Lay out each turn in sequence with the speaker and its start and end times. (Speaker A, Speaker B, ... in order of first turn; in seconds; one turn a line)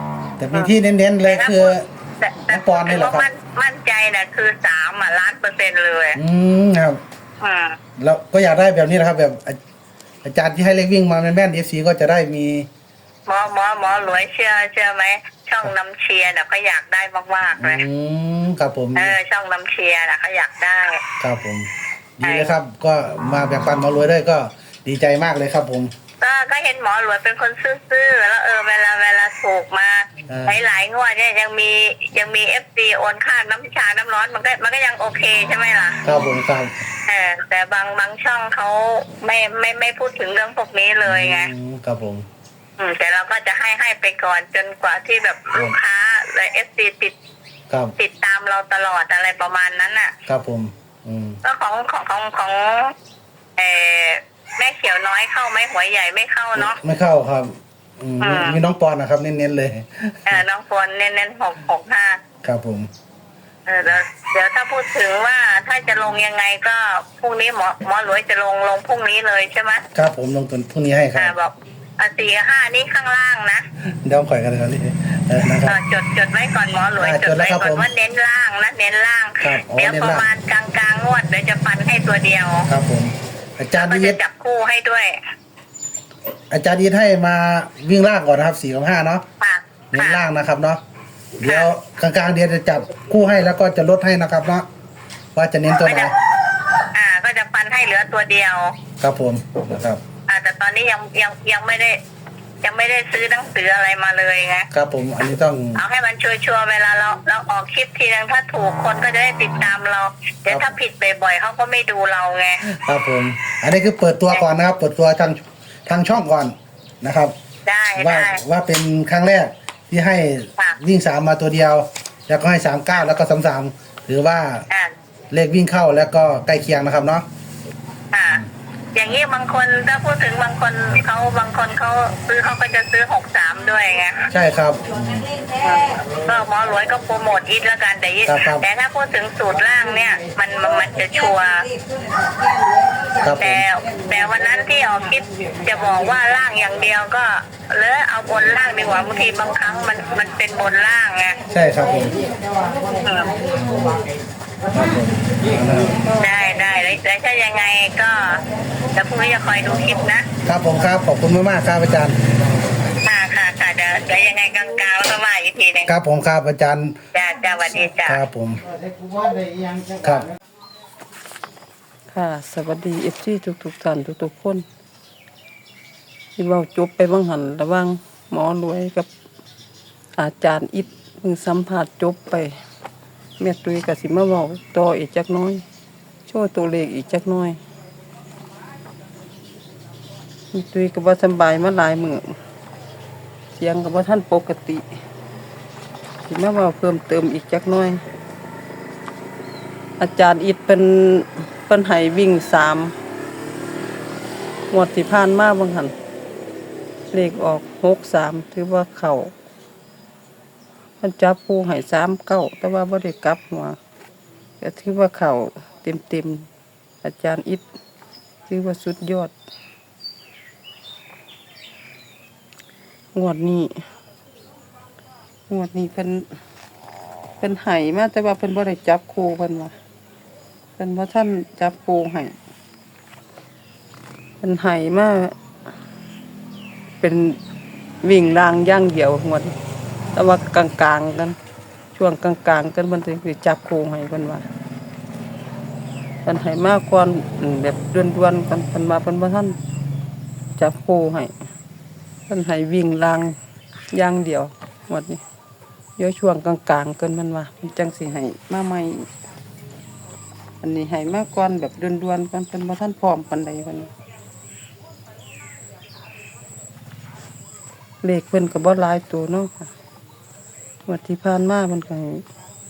Speaker A: 0.4-1.9
Speaker B: 0.5-6.2
Speaker A: 2.5-3.3
Speaker A: 6.2-7.0
Speaker B: 7.4-7.8
Speaker A: 8.0-9.6
Speaker A: 10.2-12.7
Speaker B: 13.3-17.8
Speaker A: 17.6-19.1
Speaker B: 18.9-21.0
Speaker A: 21.2-25.9
Speaker B: 22.2-22.6
Speaker B: 26.2-36.1
Speaker A: 30.3-30.6
Speaker A: 36.0-36.7
Speaker B: 37.1-41.5
Speaker A: 41.0-42.2
Speaker B: 42.8-47.1
Speaker B: 48.0-50.1
Speaker A: 50.3-51.4
Speaker B: 51.4-52.9
Speaker B: 53.6-56.8
Speaker A: 56.6-60.4
Speaker B: 58.2-58.6
Speaker B: 60.3-62.2
Speaker A: 62.4-62.9
Speaker B: 63.7-69.8
Speaker A: 69.9-71.3
Speaker B: 71.1-73.6
Speaker A: 74.0-75.8
Speaker B: 75.7-82.7
Speaker A: 77.0-77.9
Speaker A: 79.4-80.2
Speaker A: 82.7-84.2
Speaker B: 83.8-85.2
Speaker A: 86.5-89.2
Speaker B: 89.4-90.2
Speaker A: 89.9-90.8
Speaker A: 91.4-94.6
Speaker A: 95.3-96.1
Speaker B: 95.8-96.1
Speaker B: 96.9-98.7
Speaker A: 99.0-100.0
Speaker B: 100.3-102.0
Speaker B: 102.6-104.7
Speaker A: 104.7-105.8
Speaker B: 105.8-112.6
Speaker A: 110.5-110.7
Speaker A: 112.6-117.3
Speaker B: 117.7-118.4
Speaker A: 118.0-124.7
Speaker A: 125.3-127.2
Speaker B: 128.1-128.4
Speaker B: 128.9-134.3
Speaker A: 134.3-135.3
Speaker B: 136.2-141.7
Speaker A: 138.2-138.6
Speaker A: 143.2-143.6
Speaker B: 143.4-151.4
Speaker A: 151.5-152.2
Speaker B: 153.0-153.4
Speaker A: 154.7-156.0
Speaker B: 156.2-158.4
Speaker B: 158.9-160.2
Speaker A: 160.4-162.2
Speaker B: 163.1-165.9
Speaker A: 165.8-166.9
Speaker B: 167.1-168.2
Speaker A: 168.0-168.6
Speaker A: 169.9-170.3
Speaker C: 172.1-174.6
Speaker C: 176.4-179.1
Speaker C: 180.2-182.6
Speaker C: 183.4-185.6
Speaker C: 186.3-187.6
Speaker C: 190.5-192.4
Speaker C: 193.6-194.8
Speaker C: 196.3-198.0
Speaker C: 200.0-202.9
Speaker C: 204.7-205.9
Speaker C: 207.1-209.3
Speaker C: 211.0-213.8
Speaker C: 214.6-216.5
Speaker C: 217.0-217.6
Speaker C: 218.5-219.3
Speaker C: 223.1-223.8
Speaker C: 225.5-226.2
Speaker C: 227.4-229.7
Speaker C: 230.8-232.3
Speaker C: 234.4-235.3
Speaker C: 237.0-237.4
Speaker C: 238.0-239.6
Speaker C: 240.1-241.4
Speaker C: 241.9-244.4
Speaker C: 246.2-249.6
Speaker C: 250.6-251.3
Speaker C: 252.3-253.3
Speaker C: 253.9-255.2
Speaker C: 256.0-259.1
Speaker C: 260.6-263.9
Speaker C: 268.0-269.7
Speaker C: 270.9-272.2